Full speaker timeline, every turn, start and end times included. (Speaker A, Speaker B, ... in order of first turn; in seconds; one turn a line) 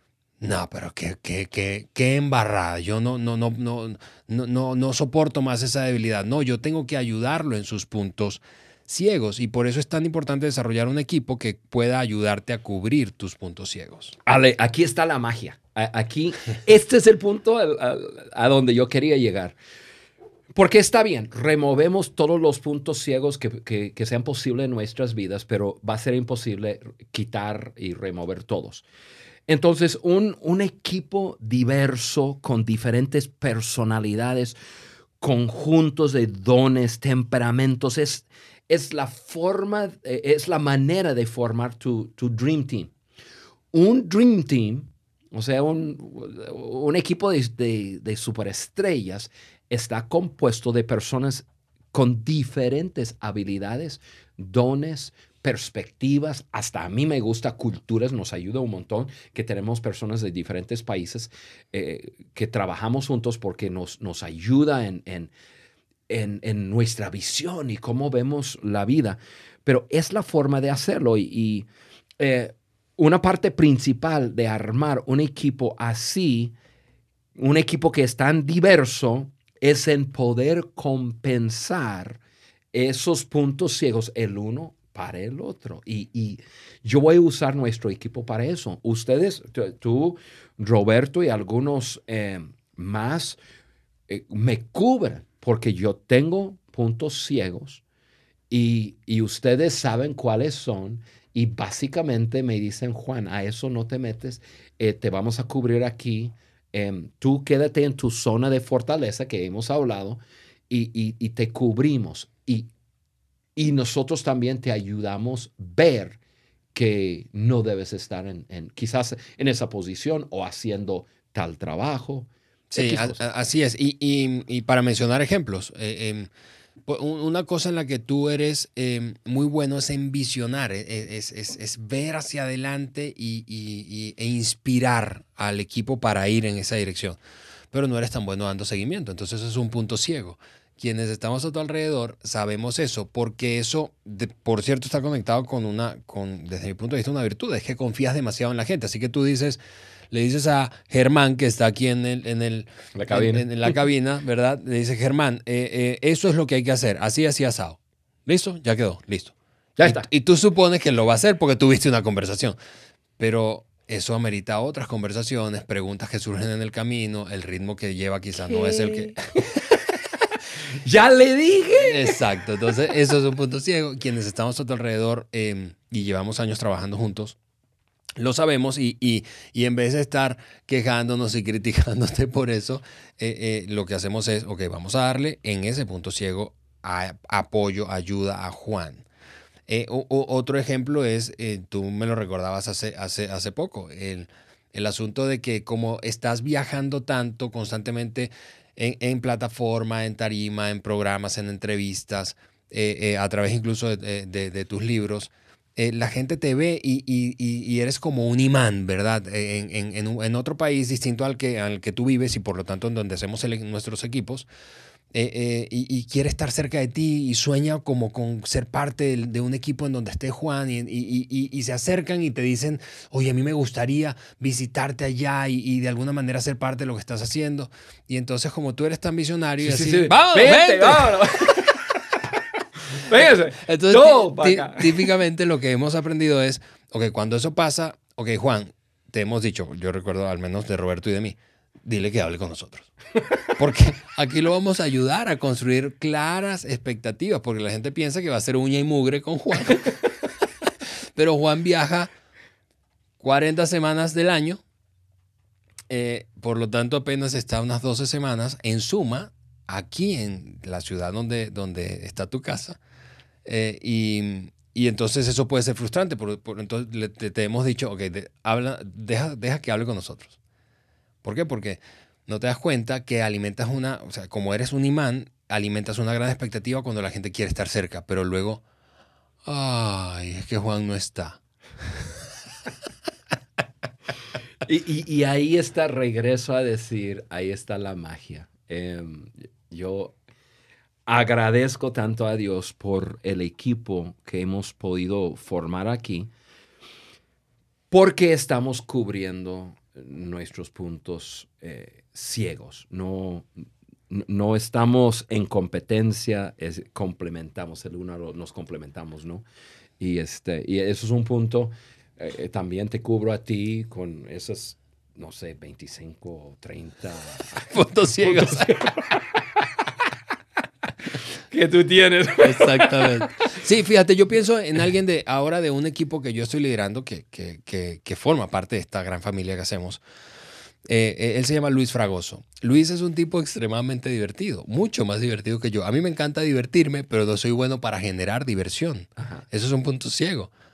Speaker A: 0.4-14.2
Speaker B: 14.3-19.6
Speaker B: 20.5-28.9
Speaker B: 29.5-34.6
Speaker B: 35.2-42.9
Speaker B: 43.7-65.3
Speaker B: 66.1-71.7
Speaker B: 72.2-76.5
Speaker B: 77.4-82.2
Speaker B: 82.7-93.4
Speaker B: 94.1-97.8
Speaker B: 98.5-112.7
Speaker B: 113.6-116.2
Speaker B: 116.7-123.2
Speaker A: 122.7-126.3
Speaker A: 126.9-137.2
Speaker A: 137.7-149.6
Speaker A: 150.1-162.6
Speaker B: 152.9-153.5
Speaker B: 159.8-160.1
Speaker A: 163.2-169.2
Speaker B: 168.5-169.8
Speaker B: 170.8-172.2
Speaker A: 171.8-177.4
Speaker A: 178.2-189.1
Speaker A: 189.7-214.5
Speaker A: 215.1-231.3
Speaker B: 229.6-231.9
Speaker B: 232.9-235.1
Speaker A: 233.6-242.9
Speaker A: 243.6-249.9
Speaker A: 251.2-252.1
Speaker A: 253.2-254.6
Speaker A: 255.9-262.8
Speaker A: 263.4-270.4
Speaker A: 271.2-278.6
Speaker A: 279.4-281.4
Speaker B: 284.6-290.2
Speaker B: 291.1-296.3
Speaker B: 297.9-303.5
Speaker B: 304.1-309.5
Speaker B: 310.0-317.7
Speaker A: 317.7-318.8
Speaker B: 318.2-319.6
Speaker B: 321.5-323.3
Speaker A: 322.4-330.0
Speaker A: 330.9-340.5
Speaker B: 339.2-339.4